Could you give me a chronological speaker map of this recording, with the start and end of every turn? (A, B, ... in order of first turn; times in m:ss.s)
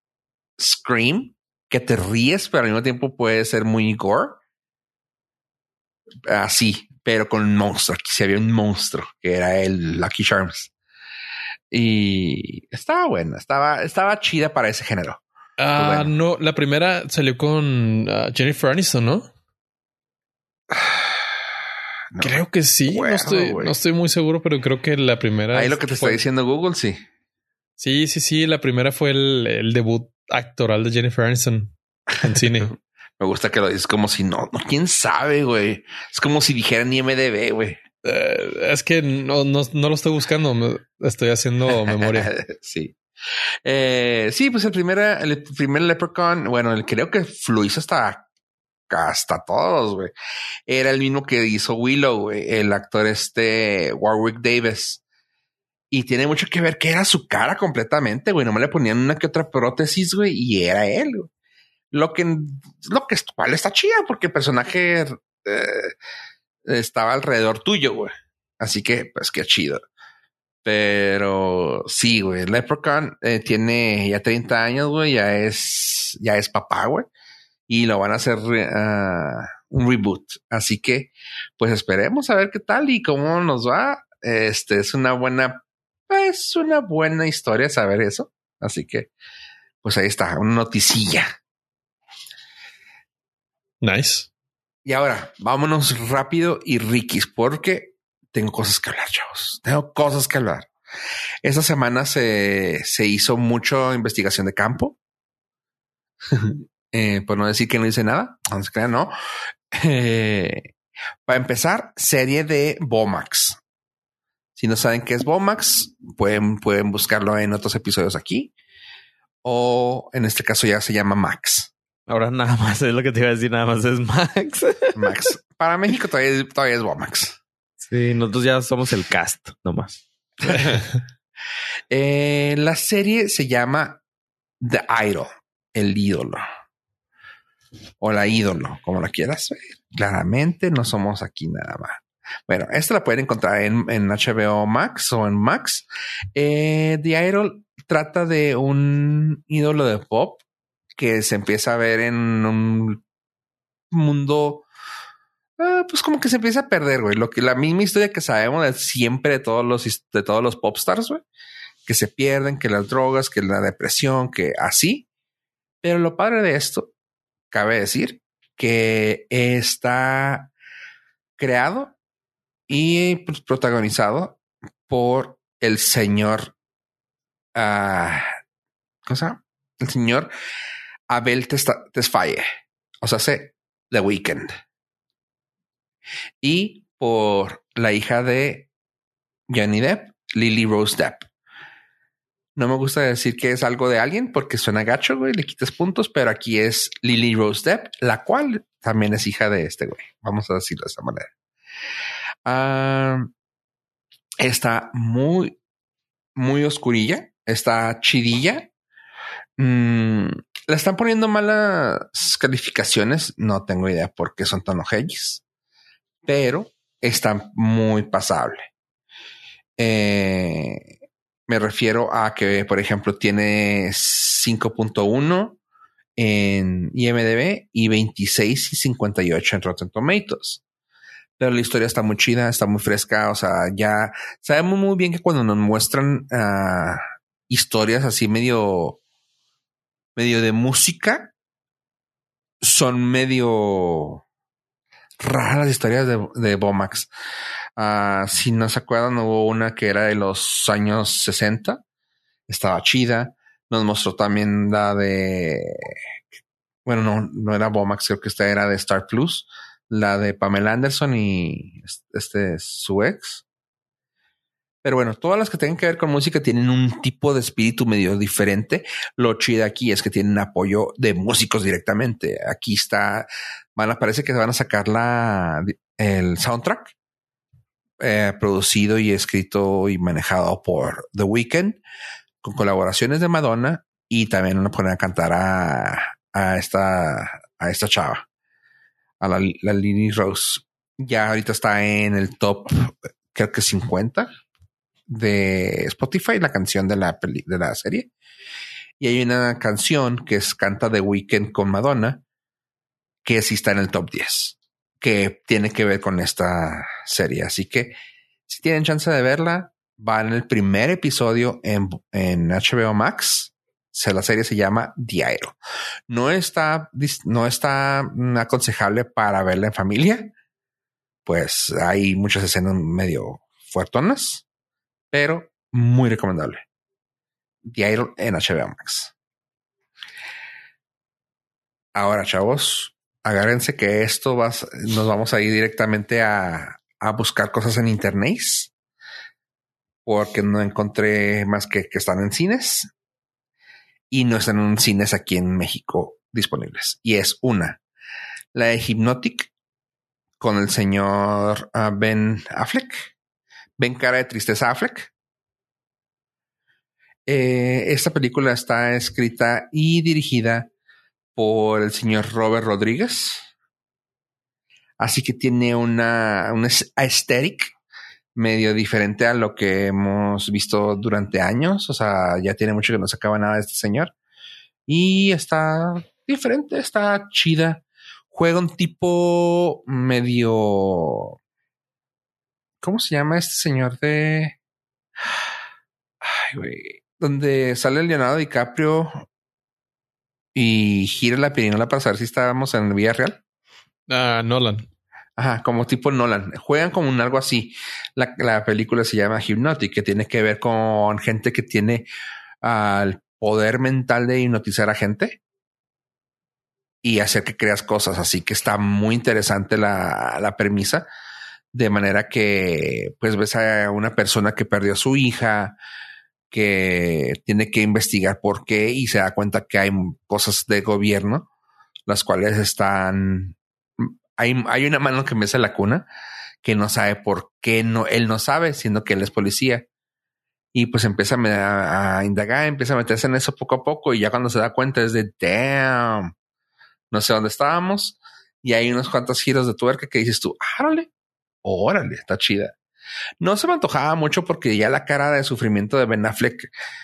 0:00.6-0:04.4 A
0:06.3-0:10.7 A
0:11.7-0:15.2 A
0:15.6-0:19.3 B
0:15.8-0:16.1 A
0:20.7-0:21.3 A
0:22.1-0:23.8 A
0:22.2-0:26.2 B
0:25.5-0:27.0 A
0:27.8-0:32.7 B
0:32.3-0:32.7 A
0:33.2-0:37.8 A
0:38.0-0:42.3 B
0:41.7-0:43.0 A
0:43.6-0:48.3 A
0:48.9-0:50.1 A
0:50.7-0:55.0 A
0:55.9-1:01.3 A
1:01.9-1:05.9 A
1:06.7-1:09.8 A
1:10.6-1:17.1 A
1:17.7-1:29.1 A
1:29.8-1:31.3 A
1:33.8-1:34.3 B
1:34.8-1:40.7 A
1:41.4-1:45.0 A
1:46.3-1:49.1 A
1:49.7-1:50.7 A
1:51.3-1:53.6 A
1:54.6-1:58.5 A
1:59.4-2:01.7 A
2:02.1-2:05.3 C
2:05.0-2:07.4 A
2:07.8-2:10.0 C
2:10.4-2:10.9 A
2:11.9-2:14.0 A
2:14.6-2:16.4 A
2:18.0-2:30.4 A
2:31.0-2:33.0 A
2:33.9-2:34.6 A
2:35.6-2:41.2 A
2:41.9-2:45.1 A
2:45.8-2:46.9 A
2:47.5-2:50.5 A
2:51.4-2:52.0 A
2:52.7-2:56.5 A
2:57.6-2:58.3 A
2:59.1-3:00.3 A
3:01.1-3:02.5 A
3:03.0-3:04.6 A
3:06.4-3:08.7 A
3:09.5-3:11.3 A
3:12.6-3:21.3 A
3:22.4-3:23.3 A
3:24.4-3:25.6 A
3:26.4-3:28.7 A
3:29.6-3:35.4 A
3:36.2-3:38.7 A
3:39.8-3:40.9 A
3:41.5-3:45.6 A
3:46.2-3:50.6 A
3:51.4-3:59.0 A
4:00.2-4:01.3 A
4:02.6-4:04.2 A
4:05.2-4:07.1 A
4:07.8-4:11.8 A
4:12.5-4:15.9 A
4:16.9-4:23.4 A
4:24.8-4:36.9 A
4:38.0-4:41.8 A
4:42.4-4:48.3 A
4:49.2-4:54.3 A
4:55.1-4:58.1 A
4:59.0-5:02.2 A
5:03.2-5:08.0 A
5:08.5-5:15.6 A
5:16.1-5:20.3 A
5:21.3-5:24.4 A
5:25.1-5:26.6 A
5:27.6-5:29.1 A
5:31.9-5:38.7 A
5:40.0-5:42.9 A
5:44.1-5:47.8 A
5:48.5-5:49.5 A
5:50.4-5:53.1 A
5:53.8-5:55.1 A
5:57.3-6:00.7 A
6:01.4-6:03.5 A
6:05.0-6:07.7 A
6:08.4-6:14.1 A
6:14.9-6:21.4 A
6:22.8-6:24.6 A
6:26.2-6:29.2 A
6:30.6-6:33.4 A
6:34.1-6:34.9 B
6:35.4-6:42.1 A
6:42.6-6:45.4 A
6:47.0-6:51.1 A
6:51.7-6:55.8 A
6:56.5-7:01.5 A
7:02.1-7:06.1 A
7:06.6-7:09.9 A
7:10.7-7:16.3 A
7:17.1-7:21.1 A
7:21.6-7:22.8 A
7:23.4-7:26.7 A